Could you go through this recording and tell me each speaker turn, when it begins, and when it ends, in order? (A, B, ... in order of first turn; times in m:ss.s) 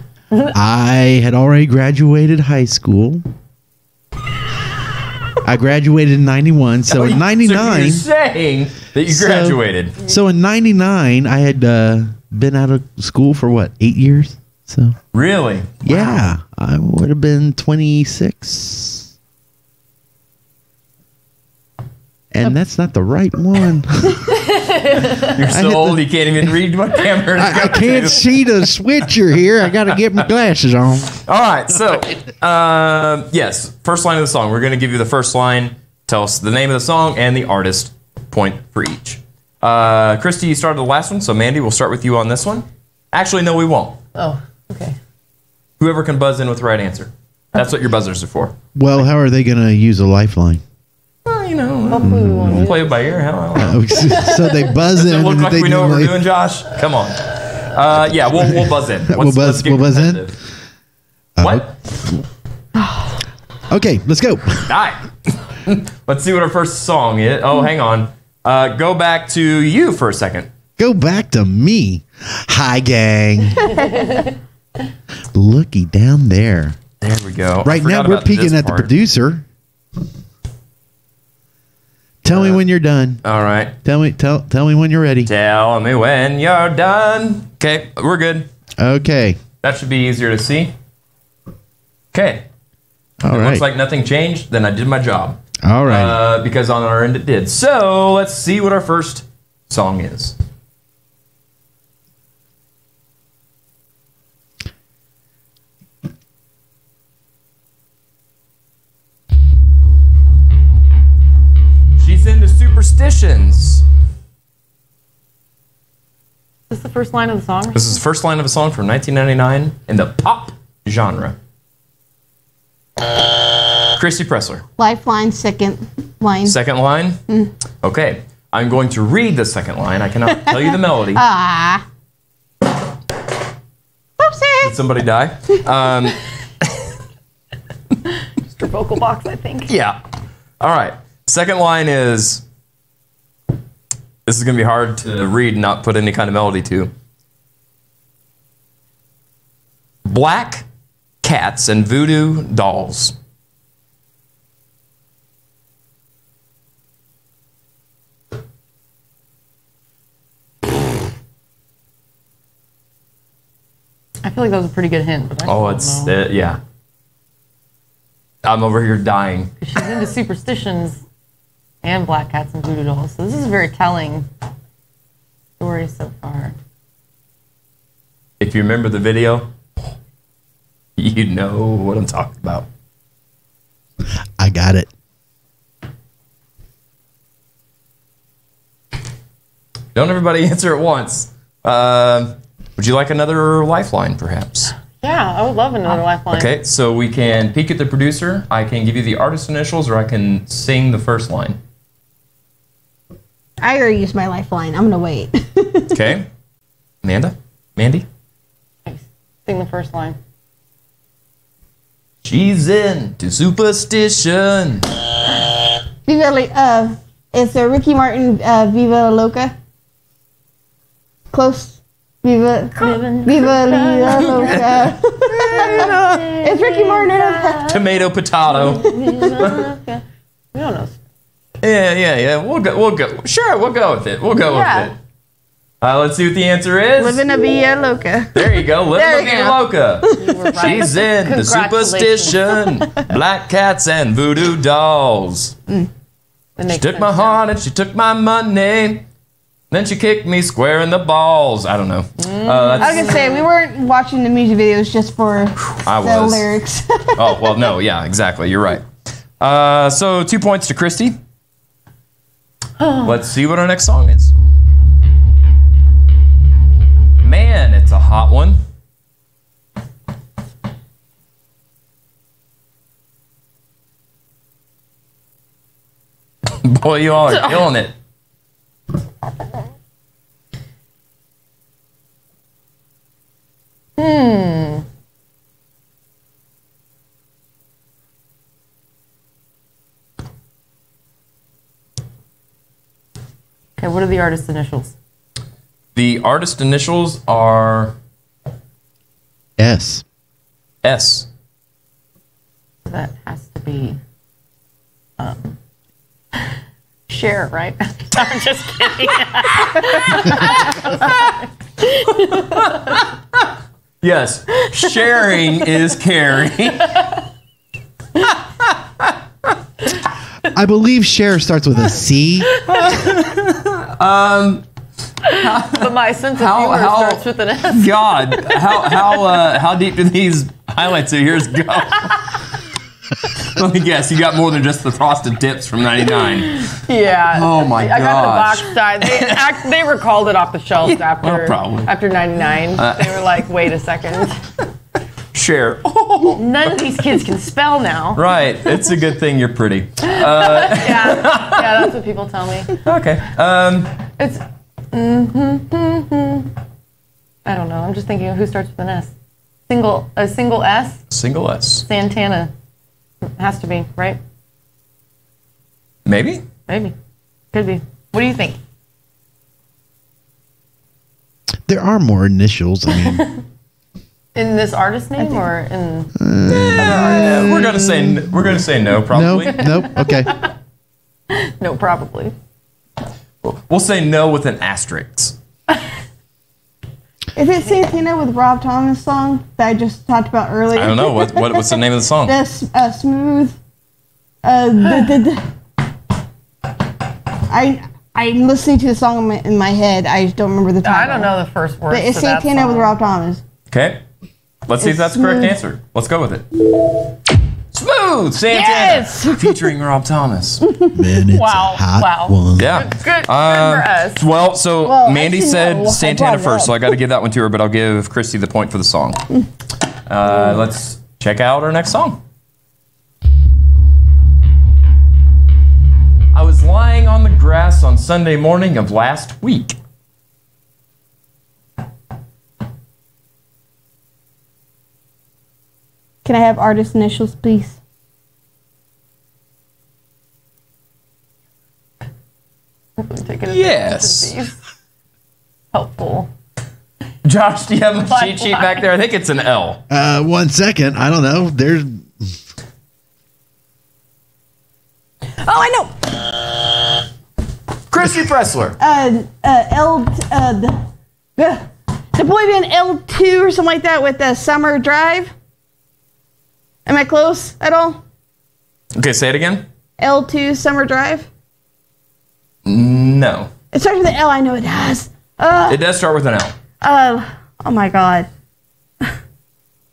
0:00.5-0:03.2 A
0:05.4-0:08.0 A
0:06.9-0:09.9 B
0:09.1-0:15.0 A
0:15.1-0:16.2 B
0:15.8-0:19.1 A
0:22.3-0:24.4 A
0:25.2-0:28.4 B
0:25.5-0:26.6 A
0:27.3-0:31.2 A
0:31.2-0:44.0 B
0:44.1-0:45.0 C
0:45.8-0:48.5 B
0:48.7-0:50.6 A
0:51.2-1:00.3 B
0:51.9-0:53.5 C
0:52.0-0:52.6 A
0:53.5-0:56.2 A
0:54.1-0:54.7 C
0:57.9-1:00.5 A
1:01.4-1:02.2 A
1:01.4-1:01.7 B
1:02.8-1:03.1 D
1:03.7-1:04.7 A
1:04.6-1:10.5 B
1:10.8-1:13.7 A
1:13.6-1:14.2 D
1:13.6-1:14.4 C
1:15.3-1:16.8 A
1:17.0-1:18.9 B
1:17.6-1:19.4 A
1:22.2-1:23.2 A
1:22.3-1:22.6 B
1:23.2-1:23.7 B
1:23.8-1:25.3 A
1:25.3-1:28.5 B
1:28.8-1:29.4 A
1:29.6-1:30.7 B
1:32.1-1:32.4 B
1:33.2-1:33.6 A
1:33.3-1:40.4 B
1:35.6-1:36.2 A
1:52.0-1:53.8 B
1:56.7-1:58.0 C
1:57.7-2:01.4 B
2:03.9-2:04.6 B
2:04.8-2:06.6 D
2:06.4-2:07.2 B
2:07.8-2:11.2 B
2:10.3-2:11.8 D
2:14.2-2:14.7 D
2:14.6-2:16.2 B
2:18.5-2:19.7 C
2:19.7-2:20.0 B
2:20.6-2:22.4 B
2:24.2-2:26.9 B
2:30.0-2:30.6 B
2:31.2-2:33.1 B
2:44.2-2:46.2 C
2:45.4-2:46.6 B
2:48.4-2:49.5 B
2:49.6-2:51.0 C
2:51.8-2:54.3 C
2:55.6-2:56.5 C
2:58.4-2:59.5 B
3:01.0-3:02.7 B
3:04.4-3:04.9 A
3:09.9-3:14.7 B
3:14.9-3:16.5 C
3:16.3-3:21.6 B
3:23.6-3:26.1 D
3:25.9-3:26.3 B
3:27.0-3:28.0 B
3:28.8-3:30.2 C
3:32.2-3:34.9 B
3:36.0-3:39.5 D
3:41.3-3:47.7 D
3:42.7-3:51.0 C
3:44.3-3:44.9 B
3:47.6-3:49.6 B
3:48.8-3:49.4 D
3:51.6-3:54.9 B
3:54.3-3:54.9 C
3:55.8-3:57.2 B
3:57.0-4:00.4 D
3:58.3-4:05.5 B
4:00.1-4:02.9 C
4:06.6-4:07.4 C
4:06.7-4:09.0 B
4:09.7-4:13.2 B
4:12.2-4:13.5 C
4:12.8-4:17.7 D
4:15.6-4:16.5 B
4:17.1-4:18.9 B
4:19.4-4:21.2 B
4:22.8-4:23.2 C
4:23.0-4:24.3 B
4:27.2-4:28.6 B
4:36.6-4:37.9 B
4:37.3-4:37.7 C
4:44.0-4:44.8 C
4:53.8-4:54.9 C
4:55.9-4:58.0 B
4:59.6-5:00.0 A
5:00.8-5:01.3 B
5:02.8-5:04.0 C
5:05.2-5:05.5 C
5:07.1-5:13.0 C
5:12.3-5:13.0 B
5:14.0-5:17.0 B
5:14.8-5:15.7 C
5:16.9-5:17.1 C
5:18.7-5:19.1 B
5:20.5-5:22.5 A
5:22.6-5:23.1 C
5:22.7-5:24.6 B
5:25.2-5:29.6 C
5:25.3-5:25.8 B
5:26.4-5:32.3 B
5:33.4-5:36.7 B
5:36.3-5:44.4 C
5:37.3-5:39.4 B
5:40.8-5:41.9 B
5:42.7-5:43.3 B
5:45.3-5:46.8 B
5:46.2-5:48.9 C
5:48.1-5:51.9 B
5:50.0-5:52.7 C
5:52.8-5:53.9 B
5:54.2-5:56.5 C
5:57.4-5:59.1 C
5:59.7-6:01.0 C
6:01.1-6:01.8 B
6:01.8-6:02.5 C
6:03.4-6:04.2 C
6:06.0-6:06.4 B
6:06.7-6:06.9 C
6:07.5-6:08.6 C
6:11.6-6:13.3 A
6:12.9-6:13.3 C
6:14.3-6:17.8 C
6:15.2-6:15.5 D
6:16.2-6:17.1 A
6:16.8-6:19.8 B
6:17.8-6:18.5 A
6:19.1-6:20.3 A
6:19.5-6:20.4 C
6:21.3-6:22.3 C
6:23.4-6:25.4 B
6:27.4-6:33.6 D
6:27.6-6:27.9 C
6:30.7-6:32.4 B
6:34.4-6:35.4 D
6:37.5-6:41.4 D
6:40.8-6:42.9 C
6:41.9-6:43.4 D
6:43.7-6:44.0 B
6:44.6-6:46.5 B
6:44.8-6:45.6 D
6:47.7-6:50.6 B
6:48.5-6:49.7 D
6:50.7-6:51.0 D
6:50.9-6:52.8 A
6:51.2-6:54.3 C
6:52.6-6:59.2 B
6:54.8-6:57.0 D
7:00.1-7:02.2 B
7:00.2-7:00.6 D
7:06.3-7:09.8 B
7:16.2-7:17.8 D
7:23.0-7:24.5 C
7:23.5-7:24.3 B
7:25.7-7:26.3 C
7:27.2-7:29.8 B
7:28.0-7:28.9 C
7:29.9-7:32.4 A
7:35.4-7:36.3 D
7:37.9-7:38.8 B
7:38.8-7:40.8 D
7:41.4-7:45.3 D
7:46.8-7:48.0 D
7:49.0-7:49.6 B
7:50.0-7:51.3 D
7:52.6-7:53.5 B
7:53.7-7:55.8 D
7:55.7-7:56.5 B
7:56.8-7:58.3 D